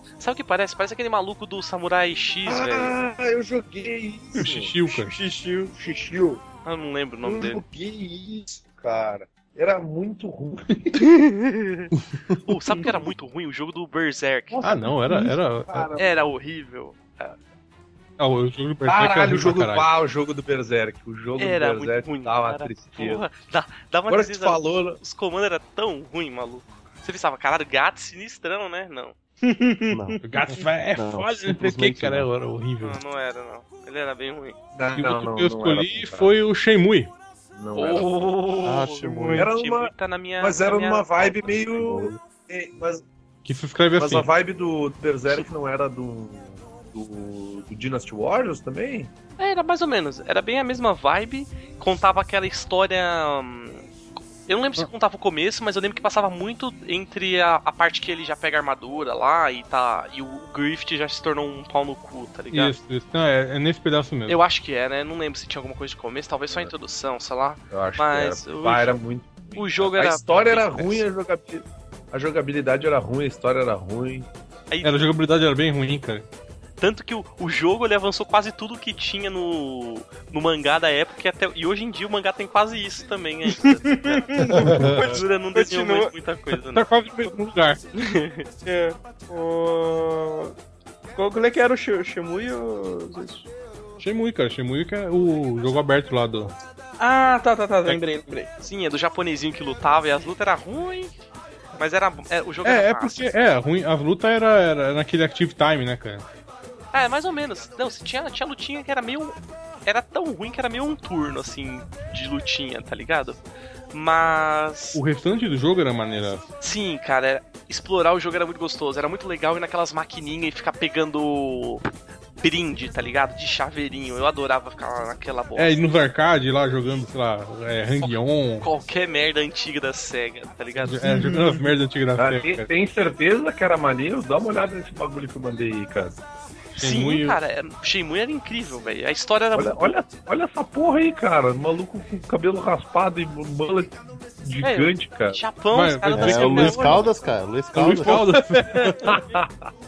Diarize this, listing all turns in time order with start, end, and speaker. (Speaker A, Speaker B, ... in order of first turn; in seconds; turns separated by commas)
Speaker A: 0.2-3.0, Speaker B: 2.5-4.8, Speaker C: 4.4-5.2, Speaker D: 4.9-5.7, Speaker B: 5.7-6.4, Speaker A: 6.7-7.6, Speaker B: 7.2-11.2, Speaker A: 11.2-11.9, Speaker A: 12.4-14.6, Speaker B: 14.5-16.1, Speaker C: 14.6-15.9, Speaker A: 16.0-17.4, Speaker C: 18.2-19.9, Speaker B: 18.9-23.2, Speaker A: 21.4-29.1, Speaker B: 24.1-25.0, Speaker D: 29.4-30.2, Speaker E: 29.9-30.2, Speaker C: 30.2-33.0, Speaker E: 30.9-32.3, Speaker A: 32.8-34.6, Speaker B: 34.8-36.4, Speaker C: 35.0-37.1, Speaker B: 37.6-38.1, Speaker A: 37.8-41.6, Speaker E: 38.6-39.5, Speaker B: 39.4-43.1, Speaker E: 41.7-42.1, Speaker C: 43.5-44.3, Speaker B: 44.0-49.1, Speaker A: 49.4-53.9, Speaker A: 54.5-62.7, Speaker C: 62.5-64.4, Speaker A: 64.3-69.0, Speaker B: 67.7-74.3, Speaker A: 69.6-71.1, Speaker A: 74.7-75.0, Speaker C: 74.8-76.3, Speaker A: 76.8-86.9, Speaker D: 83.5-86.1, Speaker B: 84.6-85.0, Speaker C: 84.7-85.0, Speaker C: 86.7-87.8, Speaker A: 87.9-88.5, Speaker D: 88.7-90.5, Speaker D: 91.2-93.5, Speaker C: 94.0-96.5, Speaker D: 97.0-98.5, Speaker A: 98.6-101.1, Speaker A: 101.8-103.2, Speaker C: 102.6-106.2, Speaker A: 106.9-113.4, Speaker A: 113.9-115.0, Speaker C: 114.9-116.5, Speaker A: 116.6-121.9, Speaker A: 122.4-125.8, Speaker C: 125.6-128.7, Speaker A: 128.0-131.0, Speaker C: 130.8-132.7, Speaker D: 131.0-131.7, Speaker B: 132.2-136.2, Speaker C: 136.8-137.4, Speaker A: 136.8-139.9, Speaker B: 139.5-145.4, Speaker A: 144.6-147.2, Speaker C: 145.7-147.1, Speaker E: 146.1-148.2, Speaker C: 147.7-149.1, Speaker B: 148.8-149.7